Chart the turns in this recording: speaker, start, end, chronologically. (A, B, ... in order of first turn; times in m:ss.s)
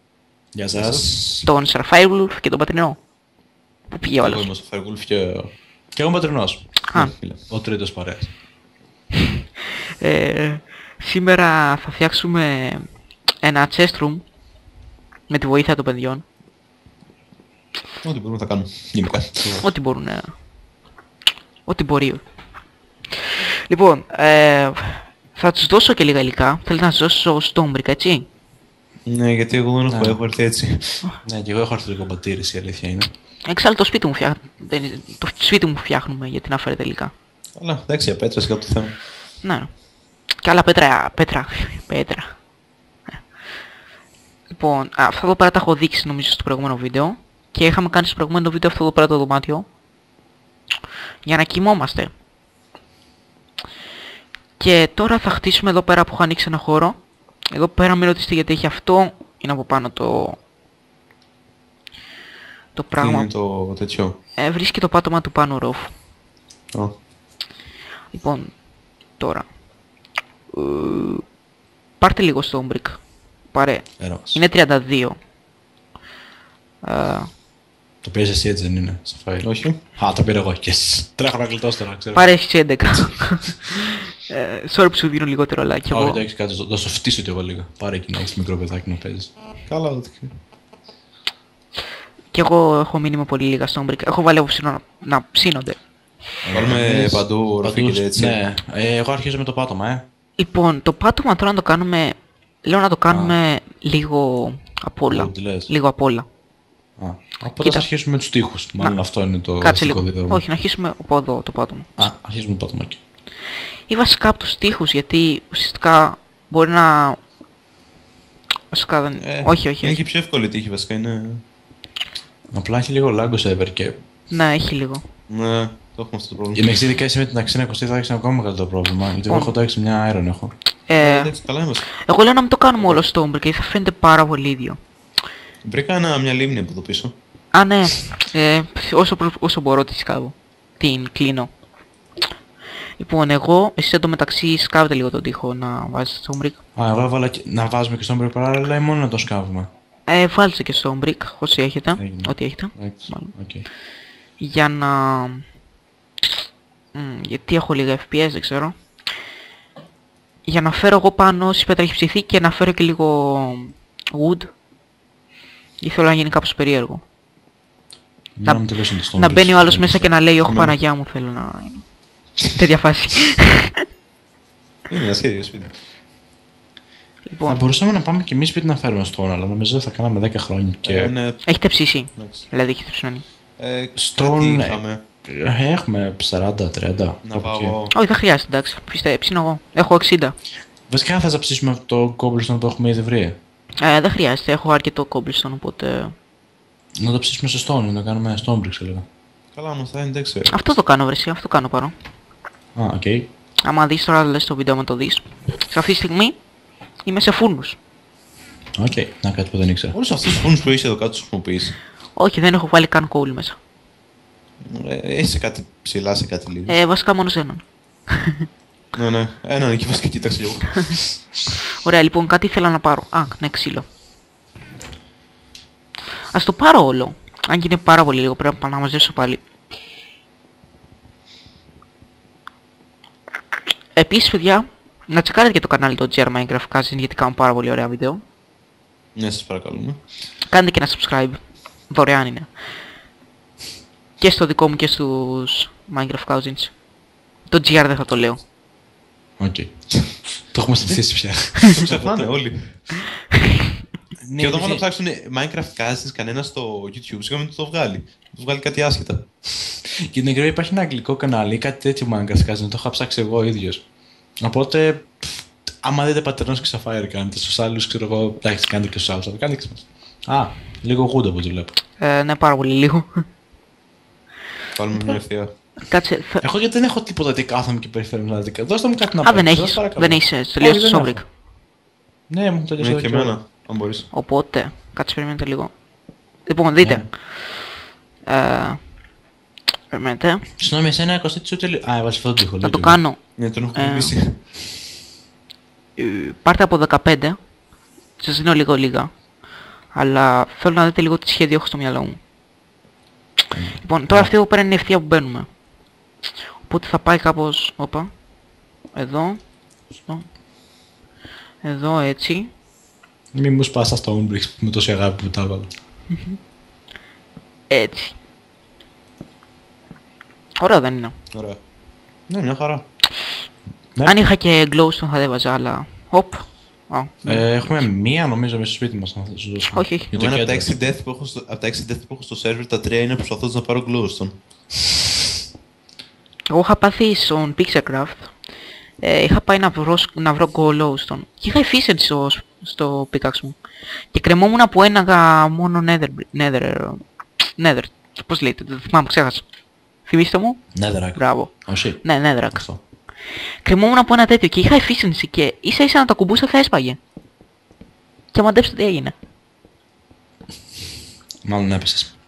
0:00.5-0:01.2 A
0:00.7-0:01.4 B
0:01.4-0:03.0 C
0:03.9-0:04.5 C
0:04.2-0:05.5 B
0:05.9-0:08.3 A
0:06.9-0:07.4 B
0:10.0-0:14.2 C
0:15.3-0:16.2 C
0:18.0-0:19.6 B
0:19.4-0:19.6 A
0:19.6-0:20.3 C
0:21.6-0:22.2 C
0:23.2-0:28.2 C
0:29.0-0:31.0 B
0:29.9-0:30.2 A
0:31.2-0:33.1 A
0:33.4-0:37.1 C
0:37.6-0:39.0 B
0:39.4-0:39.7 C
0:40.4-0:42.3 C
0:44.5-0:49.6 C
0:51.2-0:52.1 C
0:54.6-1:00.4 C
1:02.7-1:03.3 C
1:03.0-1:04.2 B
1:04.4-1:05.9 C
1:08.1-1:08.6 C
1:09.2-1:09.5 C
1:10.5-1:11.2 C
1:12.0-1:15.2 C
1:14.0-1:14.4 A
1:16.8-1:17.3 C
1:18.0-1:22.3 A
1:19.4-1:19.8 B
1:22.1-1:26.2 C
1:25.9-1:29.3 A
1:29.7-1:30.3 B
1:32.3-1:35.8 C
1:36.4-1:40.0 A
1:36.5-1:38.4 B
1:40.4-1:46.2 C
1:43.1-1:43.3 A
1:45.1-1:45.7 A
1:47.0-1:50.4 A
1:47.6-1:47.9 C
1:48.8-1:52.1 C
1:52.0-1:53.0 A
1:53.9-1:57.2 C
1:58.7-2:00.0 C
1:59.2-2:01.4 B
2:02.5-2:04.0 A
2:04.3-2:05.0 C
2:05.3-2:06.6 B
2:06.5-2:10.5 A
2:09.3-2:09.5 C
2:10.9-2:11.3 C
2:11.0-2:11.8 B
2:11.9-2:14.8 C
2:12.8-2:13.0 B
2:15.6-2:17.1 B
2:17.5-2:21.5 C
2:23.0-2:26.6 C
2:26.7-2:29.7 A
2:30.1-2:33.3 C
2:32.0-2:33.6 A
2:34.4-2:35.4 C
2:36.9-2:38.7 C
2:40.4-2:44.5 C
2:45.8-2:47.0 C
2:48.4-2:50.1 A
2:48.4-2:51.9 C
2:50.4-2:50.8 B
2:52.5-2:53.8 C
2:54.9-2:55.8 B
2:57.2-2:57.6 C
2:57.4-3:01.1 A
3:00.8-3:01.4 B
3:01.4-3:03.2 C
3:02.2-3:02.5 B
3:03.6-3:05.0 B
3:04.0-3:07.7 A
3:07.2-3:07.9 B
3:07.9-3:10.3 C
3:10.9-3:13.4 A
3:13.8-3:16.1 C
3:17.0-3:19.0 A
3:19.5-3:20.5 B
3:20.5-3:21.9 C
3:22.8-3:23.3 A
3:23.6-3:26.4 C
3:27.0-3:27.8 C
3:28.8-3:30.0 A
3:29.9-3:31.8 B
3:32.1-3:33.6 C
3:34.6-3:36.8 B
3:36.7-3:38.5 C
3:38.9-3:41.2 B
3:41.8-3:43.8 C
3:46.3-3:49.4 C
3:53.9-3:58.2 C
3:59.2-4:00.0 B
4:00.5-4:02.5 C
4:04.2-4:06.8 C
4:07.5-4:08.4 C
4:09.4-4:12.3 A
4:11.7-4:12.9 B
4:13.3-4:13.7 C
4:14.2-4:14.8 A
4:14.4-4:19.3 B
4:20.1-4:23.8 A
4:24.4-4:31.8 A
4:32.0-4:33.2 C
4:34.7-4:35.5 B
4:35.8-4:36.4 C
4:36.4-4:41.2 A
4:39.2-4:41.2 C
4:42.3-4:43.3 A
4:42.8-4:44.1 B
4:44.1-4:45.7 C
4:46.4-4:47.7 C
4:46.8-4:47.1 A
4:48.3-4:48.8 C
4:49.9-4:50.4 C
4:50.6-4:53.0 A
4:52.6-4:53.2 C
4:53.4-4:54.4 B
4:53.7-4:54.1 C
4:56.0-4:57.4 C
4:58.2-4:59.1 C
4:59.9-5:02.2 C
5:03.5-5:04.3 A
5:03.8-5:05.5 C
5:06.6-5:08.1 C
5:08.9-5:09.4 C
5:10.0-5:10.2 C
5:11.6-5:12.5 C
5:13.3-5:15.7 A
5:17.7-5:18.2 C
5:20.6-5:21.1 C
5:21.3-5:21.6 B
5:22.3-5:22.8 B
5:24.0-5:27.8 C
5:27.2-5:30.7 A
5:29.7-5:30.1 C
5:30.1-5:34.3 B
5:36.5-5:38.3 C
5:39.0-5:43.6 C
5:44.1-5:47.0 C
5:47.6-5:49.4 C
5:50.0-5:52.7 C
5:50.7-5:52.8 A
5:53.6-5:57.0 C
5:58.3-5:59.1 C
6:01.4-6:02.1 A